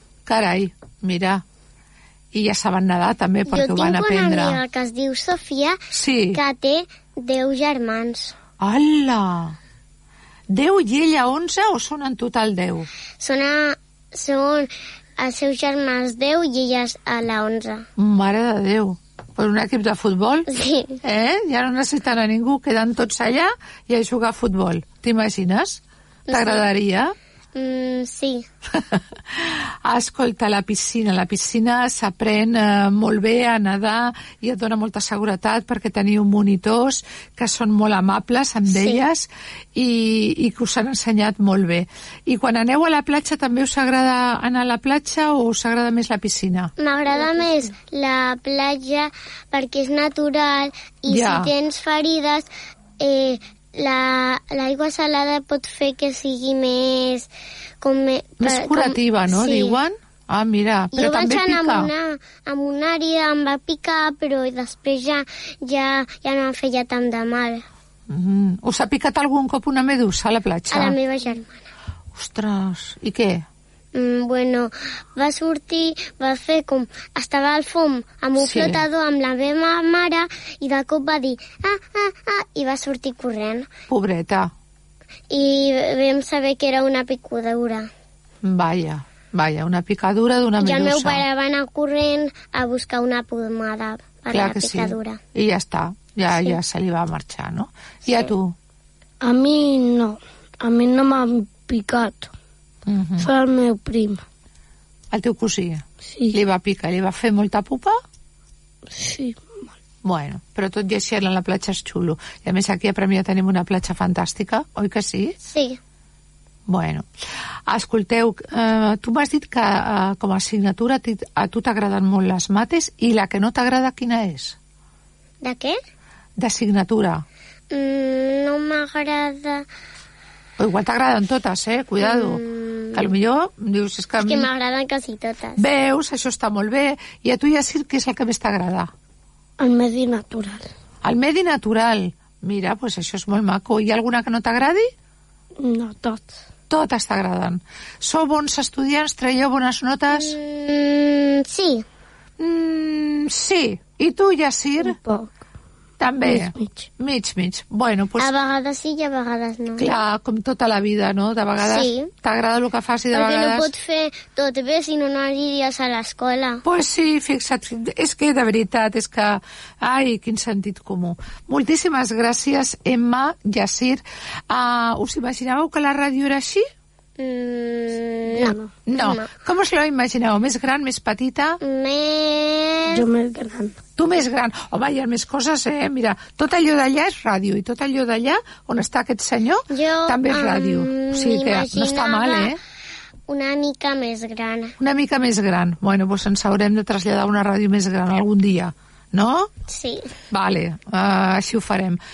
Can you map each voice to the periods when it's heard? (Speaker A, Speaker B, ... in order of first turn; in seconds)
Speaker A: 0.3-1.4, 2.3-4.6, 5.9-6.4, 8.6-9.6, 10.5-12.9, 18.0-20.5, 21.0-27.1, 28.8-46.7, 51.1-51.5, 58.4-61.9, 68.1-71.0, 72.1-73.5, 78.4-78.8, 83.9-84.5, 88.4-91.2, 94.3-98.5, 102.9-103.3, 105.1-108.0, 110.0-115.4, 116.7-117.0, 117.7-124.6, 126.4-127.2, 130.6-132.4, 132.9-134.5, 135.6-138.9, 141.0-144.9, 146.7-150.4, 152.4-155.0, 156.0-158.3, 159.8-163.7, 166.6-176.7, 178.9-181.6, 184.0-192.6, 194.8-199.5, 200.3-202.0
Speaker B: 3.5-5.8, 6.3-8.4, 13.2-17.9, 20.5-21.0, 26.3-26.7, 27.6-28.5, 38.7-39.0, 46.8-52.5, 53.0-57.3, 57.8-59.8, 60.9-67.7, 70.7-71.6, 74.0-83.7, 85.3-87.9, 90.6-95.2, 96.3-96.6, 115.5-115.8, 125.4-125.8, 127.7-129.7, 132.0-133.1, 134.2-135.6, 150.1-151.8, 158.2-159.9, 161.6-162.1, 163.1-166.6, 177.2-179.3, 181.6-183.1, 189.7-192.5, 193.3-194.8, 199.7-200.1
Speaker C: 99.2-102.3, 103.2-104.2, 106.0-106.4, 108.9-109.7, 139.6-140.7, 145.6-146.3, 154.8-155.3, 156.2-156.9, 178.3-178.7, 182.9-183.8